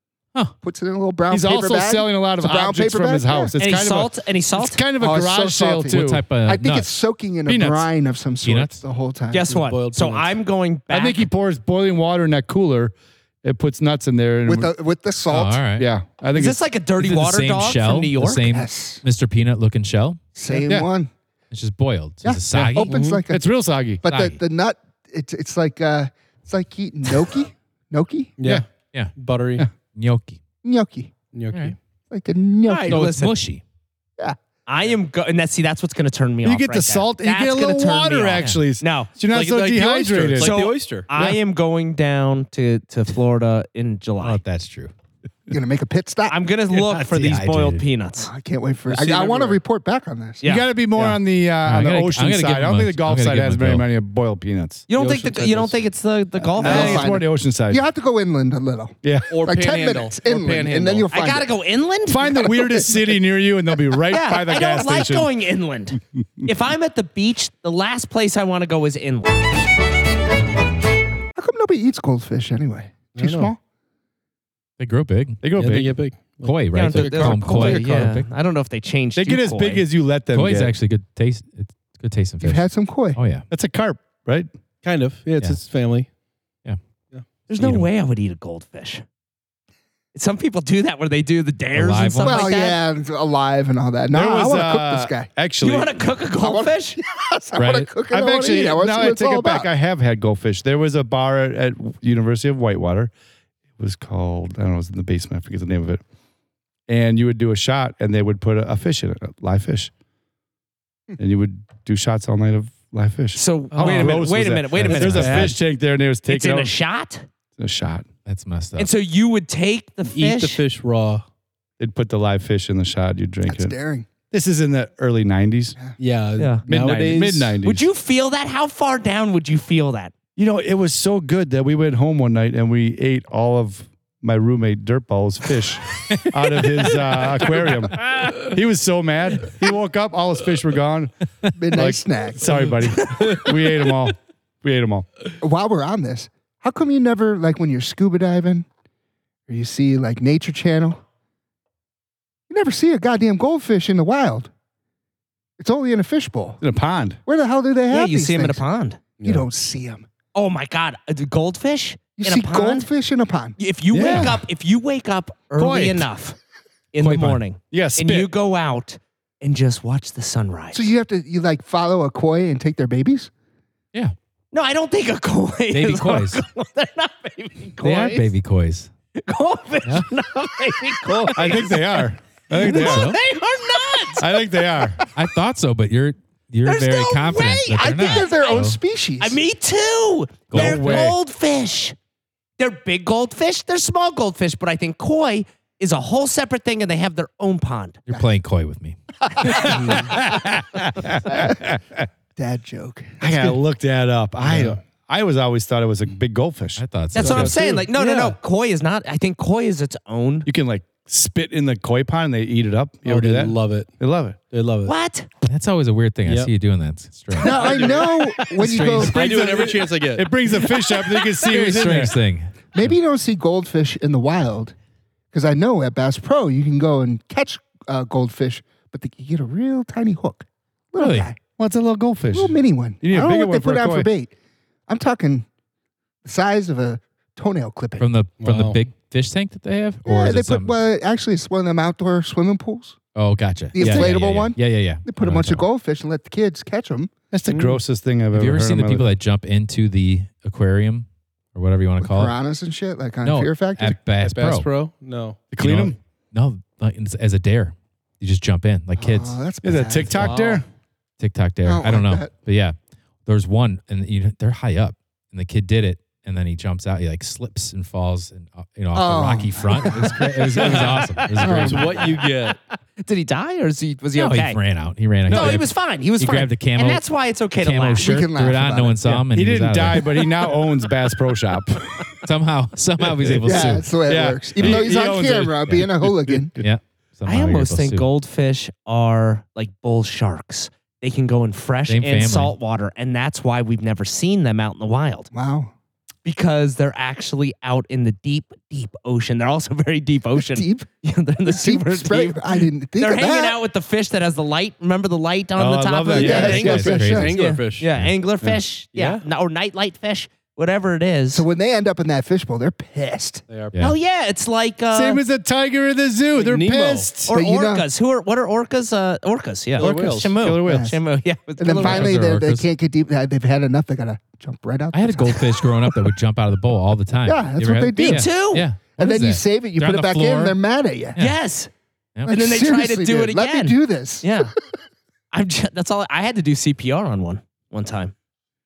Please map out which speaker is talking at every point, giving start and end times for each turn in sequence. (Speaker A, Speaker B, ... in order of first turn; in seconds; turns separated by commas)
Speaker A: 0.6-3.5, Speaker B: 1.3-6.2, Speaker C: 3.6-4.8, Speaker A: 5.0-9.5, Speaker D: 5.9-6.9, Speaker B: 7.5-7.9, Speaker D: 8.4-8.8, Speaker C: 9.3-11.3, Speaker E: 9.5-10.4, Speaker B: 10.9-14.7, Speaker A: 14.5-15.6, Speaker D: 15.3-15.9, Speaker B: 15.8-16.6, Speaker C: 16.3-18.4, Speaker D: 17.0-20.2, Speaker A: 18.5-19.0, Speaker A: 20.4-21.1, Speaker B: 20.5-20.9, Speaker D: 21.5-23.0, Speaker A: 22.2-23.5, Speaker B: 22.5-22.8, Speaker E: 22.9-23.2, Speaker B: 23.3-24.0, Speaker A: 24.0-28.3, Speaker D: 24.1-24.4, Speaker E: 28.4-28.6, Speaker E: 29.2-29.7, Speaker D: 29.8-30.4, Speaker A: 30.6-31.2, Speaker E: 31.3-31.8, Speaker A: 32.1-33.1, Speaker C: 32.7-33.4, Speaker D: 32.9-33.6, Speaker C: 34.7-39.1, Speaker B: 36.4-40.6, Speaker D: 38.4-38.6, Speaker E: 39.2-41.1, Speaker C: 40.4-44.4, Speaker D: 44.2-44.9, Speaker A: 45.5-46.4, Speaker C: 46.3-48.3, Speaker D: 47.1-47.8, Speaker A: 48.2-50.4, Speaker E: 48.9-49.6, Speaker C: 50.4-50.7, Speaker B: 50.4-54.9, Speaker D: 51.0-53.9, Speaker C: 54.9-57.1, Speaker E: 54.9-55.9, Speaker B: 56.5-57.8, Speaker A: 56.6-61.5, Speaker B: 59.0-59.3, Speaker E: 59.3-61.1, Speaker C: 61.1-62.4, Speaker B: 62.1-65.3, Speaker A: 62.4-62.9, Speaker C: 64.1-69.4, Speaker A: 71.4-73.6, Speaker E: 73.2-73.5, Speaker D: 74.8-75.4, Speaker B: 75.4-76.0, Speaker E: 75.6-77.8, Speaker D: 76.4-78.3, Speaker C: 76.7-79.9, Speaker B: 77.1-77.8, Speaker B: 79.2-80.7, Speaker D: 80.3-83.5, Speaker A: 82.4-83.2, Speaker B: 83.5-84.5, Speaker E: 84.8-86.1, Speaker C: 87.5-89.0, Speaker D: 87.5-87.9, Speaker C: 90.1-92.8, Speaker D: 91.8-92.5, Speaker A: 92.2-95.3, Speaker B: 94.1-96.0, Speaker C: 95.6-97.0, Speaker A: 96.4-99.7, Speaker B: 97.6-103.1, Speaker B: 103.8-106.0, Speaker B: 106.9-109.9, Speaker B: 111.2-116.8, Speaker C: 113.3-115.6, Speaker D: 114.9-115.5, Speaker E: 114.9-115.5, Speaker C: 116.3-117.3, Speaker B: 117.6-118.0, Speaker D: 118.3-118.9, Speaker C: 118.8-120.6, Speaker E: 120.1-121.2, Speaker B: 121.8-123.8, Speaker A: 123.5-124.1, Speaker B: 124.3-125.8, Speaker E: 126.0-127.6, Speaker C: 126.4-126.6, Speaker B: 126.7-127.9, Speaker C: 127.6-130.1, Speaker B: 130.4-141.2, Speaker A: 141.6-142.5, Speaker B: 141.7-145.1, Speaker A: 145.4-148.7, Speaker A: 149.5-151.0, Speaker A: 152.5-154.5, Speaker A: 155.6-156.6, Speaker B: 156.6-157.2, Speaker A: 157.2-158.6, Speaker C: 157.9-159.0, Speaker A: 159.2-160.1, Speaker C: 160.3-162.9, Speaker A: 162.2-163.6, Speaker C: 163.6-166.4, Speaker B: 163.9-164.4, Speaker B: 165.6-166.1, Speaker C: 166.9-170.9, Speaker D: 167.0-167.4, Speaker B: 167.7-168.3, Speaker A: 170.7-173.3, Speaker C: 174.5-178.3, Speaker D: 175.7-176.4, Speaker D: 177.8-178.9, Speaker C: 179.2-185.1, Speaker B: 181.3-183.1, Speaker D: 182.7-183.2, Speaker B: 184.2-185.0, Speaker D: 185.2-188.8, Speaker C: 186.7-188.7, Speaker A: 187.8-189.4, Speaker C: 189.2-192.0, Speaker D: 190.5-191.1, Speaker B: 190.5-191.2, Speaker C: 192.6-198.0, Speaker D: 198.1-199.7, Speaker A: 199.3-200.1, Speaker C: 199.4-200.2, Speaker B: 199.6-201.8, Speaker A: 201.3-201.7, Speaker A: 202.4-203.6, Speaker B: 203.2-206.8, Speaker D: 206.8-207.7, Speaker C: 207.1-210.5, Speaker E: 207.2-208.3, Speaker B: 210.5-214.4, Speaker E: 213.1-213.9, Speaker E: 214.5-214.9, Speaker C: 214.8-215.3, Speaker D: 215.4-217.8, Speaker E: 216.2-216.5, Speaker A: 217.4-219.7, Speaker E: 217.4-218.5, Speaker D: 218.4-219.2, Speaker B: 219.0-222.1, Speaker E: 219.1-220.3, Speaker D: 221.4-222.9, Speaker A: 222.7-224.7, Speaker A: 225.3-231.4, Speaker D: 231.0-231.3, Speaker B: 231.6-234.1, Speaker A: 232.3-234.3, Speaker A: 234.9-235.4, Speaker A: 236.2-238.1, Speaker D: 238.0-240.8, Speaker E: 238.4-238.8, Speaker A: 240.1-243.0, Speaker D: 243.2-245.6, Speaker A: 243.7-247.1, Speaker B: 243.8-244.1, Speaker B: 247.3-249.1, Speaker E: 247.5-247.8, Speaker D: 248.3-252.3, Speaker A: 252.0-254.0, Speaker D: 253.2-254.7, Speaker E: 254.1-255.5, Speaker B: 255.5-256.0, Speaker D: 255.6-259.4, Speaker A: 259.0-260.4, Speaker B: 259.6-260.6, Speaker C: 260.1-260.6, Speaker D: 261.2-262.8, Speaker A: 261.6-262.3, Speaker D: 263.3-272.0, Speaker A: 268.9-272.2, Speaker C: 270.4-274.6, Speaker E: 270.6-272.6, Speaker D: 274.1-277.1, Speaker C: 275.3-278.2, Speaker E: 275.3-275.6, Speaker D: 277.6-280.1, Speaker A: 278.0-279.0, Speaker B: 279.1-282.1, Speaker D: 282.2-283.9, Speaker B: 283.1-286.4, Speaker A: 283.4-286.6, Speaker D: 284.6-284.9, Speaker D: 286.6-288.1, Speaker C: 287.3-295.3, Speaker D: 291.9-292.6, Speaker A: 295.3-295.7, Speaker C: 296.2-311.4, Speaker A: 300.3-300.9, Speaker A: 301.4-303.6, Speaker B: 305.6-306.7, Speaker A: 306.1-307.4, Speaker D: 306.5-308.1, Speaker E: 306.7-307.9, Speaker E: 308.9-309.2, Speaker A: 311.3-313.4, Speaker E: 313.5-313.8, Speaker C: 313.8-315.2, Speaker B: 314.9-317.3, Speaker E: 316.4-317.3, Speaker C: 317.3-322.2, Speaker A: 317.3-317.9, Speaker E: 319.8-320.4, Speaker B: 319.8-320.9, Speaker A: 320.6-321.0, Speaker A: 321.6-325.6, Speaker D: 321.8-322.7, Speaker D: 324.9-330.6, Speaker A: 327.2-328.3, Speaker C: 328.0-328.7, Speaker A: 329.0-331.2, Speaker C: 331.2-331.7, Speaker A: 332.2-334.6, Speaker C: 332.3-334.5, Speaker C: 335.3-338.1